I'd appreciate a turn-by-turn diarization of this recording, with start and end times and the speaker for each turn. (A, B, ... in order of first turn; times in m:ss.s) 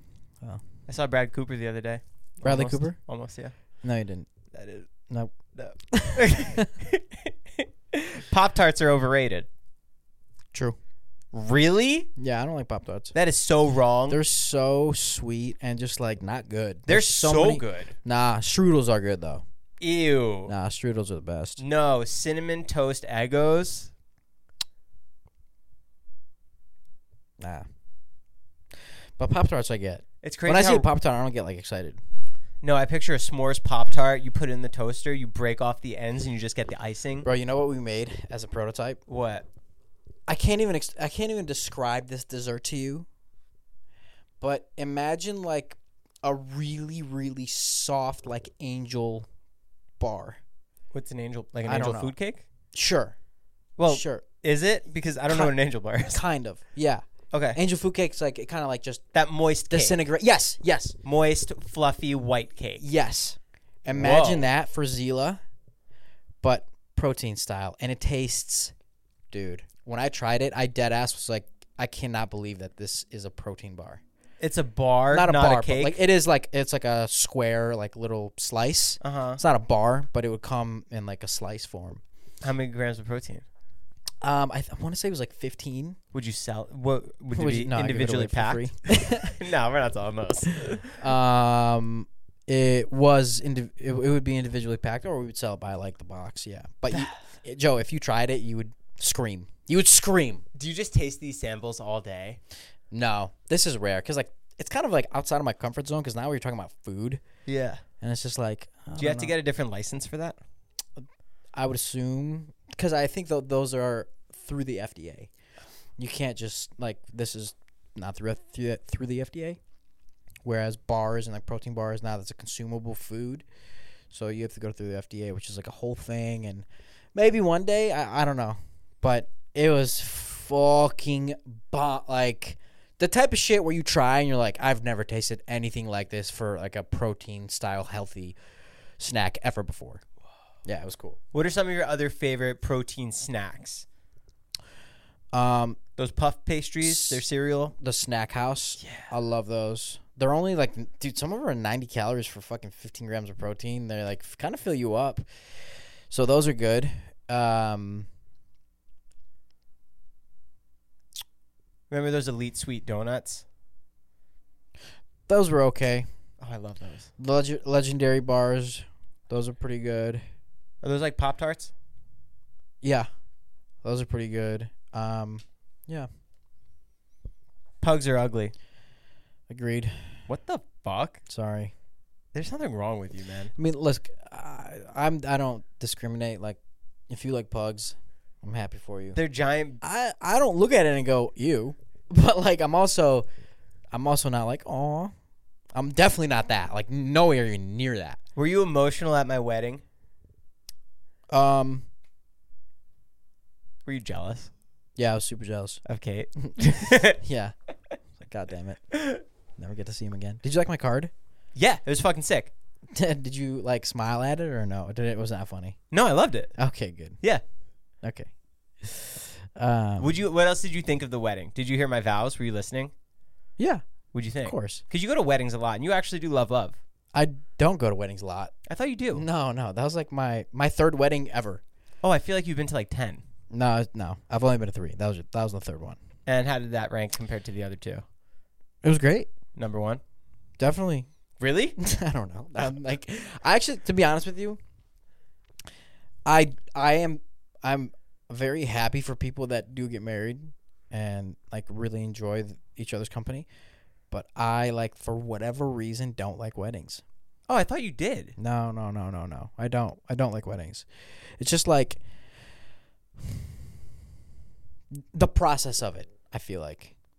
0:00.9-0:03.5 A
0:02.4-0:03.0 B
0:03.8-0:04.3 B
0:04.5-0:04.9 A
0:05.5-0:09.5 A
0:05.9-0:06.6 B
0:11.3-0:12.1 A
0:12.2-0:13.1 B
0:13.1-0:14.2 A
0:14.1-0:19.4 B
0:16.9-0:17.9 A
0:19.8-0:20.5 A
0:20.5-0:21.6 B
0:21.6-0:23.9 A
0:27.4-0:27.6 B
0:29.2-0:32.0 B
0:30.2-0:30.9 A
0:32.6-0:37.3 A
0:37.2-0:39.0 B
0:39.1-0:39.4 A
0:40.3-0:43.1 B
0:44.4-0:49.3 B
0:50.0-0:50.4 B
0:50.9-0:52.4 A
0:51.6-0:52.1 B
0:52.7-0:53.2 B
0:53.8-0:56.2 A
0:53.9-0:54.2 B
0:55.3-0:55.5 B
0:56.0-0:59.0 B
0:57.3-0:57.6 A
0:59.1-1:00.0 A
0:59.7-1:01.0 B
1:01.0-1:02.8 A
1:02.8-1:05.4 B
1:03.9-1:04.5 A
1:06.4-1:08.7 B
1:09.3-1:14.0 B
1:14.4-1:16.0 A
1:15.1-1:22.0 B
1:19.0-1:19.4 A
1:22.4-1:23.4 A
1:24.2-1:26.0 B
1:26.1-1:31.0 A
1:27.3-1:29.4 B
1:31.0-1:40.4 B
1:40.5-1:42.4 A
1:42.9-1:47.2 B
1:47.4-1:47.8 A
1:48.0-1:49.3 B
1:49.0-1:50.4 A
1:51.0-1:55.3 B
1:56.0-1:59.6 B
2:00.4-2:03.4 B
2:04.1-2:18.4 B
2:19.0-2:20.0 B
2:20.6-2:21.2 B
2:21.3-2:23.8 A
2:25.3-2:25.8 B
2:26.0-2:27.7 A
2:26.8-2:35.3 B
2:28.8-2:29.1 A
2:36.1-2:38.1 B
2:41.9-2:43.4 A
2:45.3-2:46.1 B
2:46.4-2:47.1 A
2:47.2-2:50.2 B
2:50.8-2:51.7 A
2:52.8-2:53.1 B
2:53.8-2:56.1 B
2:57.8-2:58.5 A
2:59.5-3:00.1 B
3:00.3-3:01.2 A
3:01.3-3:01.7 B
3:02.3-3:03.5 A
3:03.6-3:06.6 B
3:07.1-3:09.2 B
3:09.2-3:09.8 A
3:09.8-3:13.3 B
3:13.9-3:15.1 B
3:15.7-3:18.2 B
3:18.4-3:19.8 A
3:21.3-3:21.9 B
3:23.8-3:24.5 A
3:25.0-3:25.8 B
3:25.8-3:27.2 A
3:26.4-3:27.5 B
3:28.1-3:28.9 B
3:29.6-3:31.1 B
3:31.5-3:32.5 A
3:32.9-3:35.8 B
3:35.9-3:36.5 A
3:36.6-3:37.2 B
3:38.0-3:38.3 B
3:38.8-3:40.2 B
3:40.0-3:42.9 A
3:43.6-3:43.8 B
3:44.1-3:46.8 A
3:44.4-3:44.8 B
3:47.1-3:48.5 B
3:48.7-3:49.2 A
3:49.1-3:51.6 B
3:52.0-3:53.2 A
3:53.5-3:56.0 B
3:56.2-3:58.0 A
3:58.8-3:59.3 B
3:59.5-4:00.0 A
4:00.6-4:01.1 B
4:01.4-4:01.8 A
4:01.8-4:04.6 B
4:06.2-4:13.5 B
4:14.1-4:17.0 B
4:17.5-4:18.3 A
4:18.4-4:20.9 B
4:21.4-4:22.0 B
4:25.0-4:26.9 B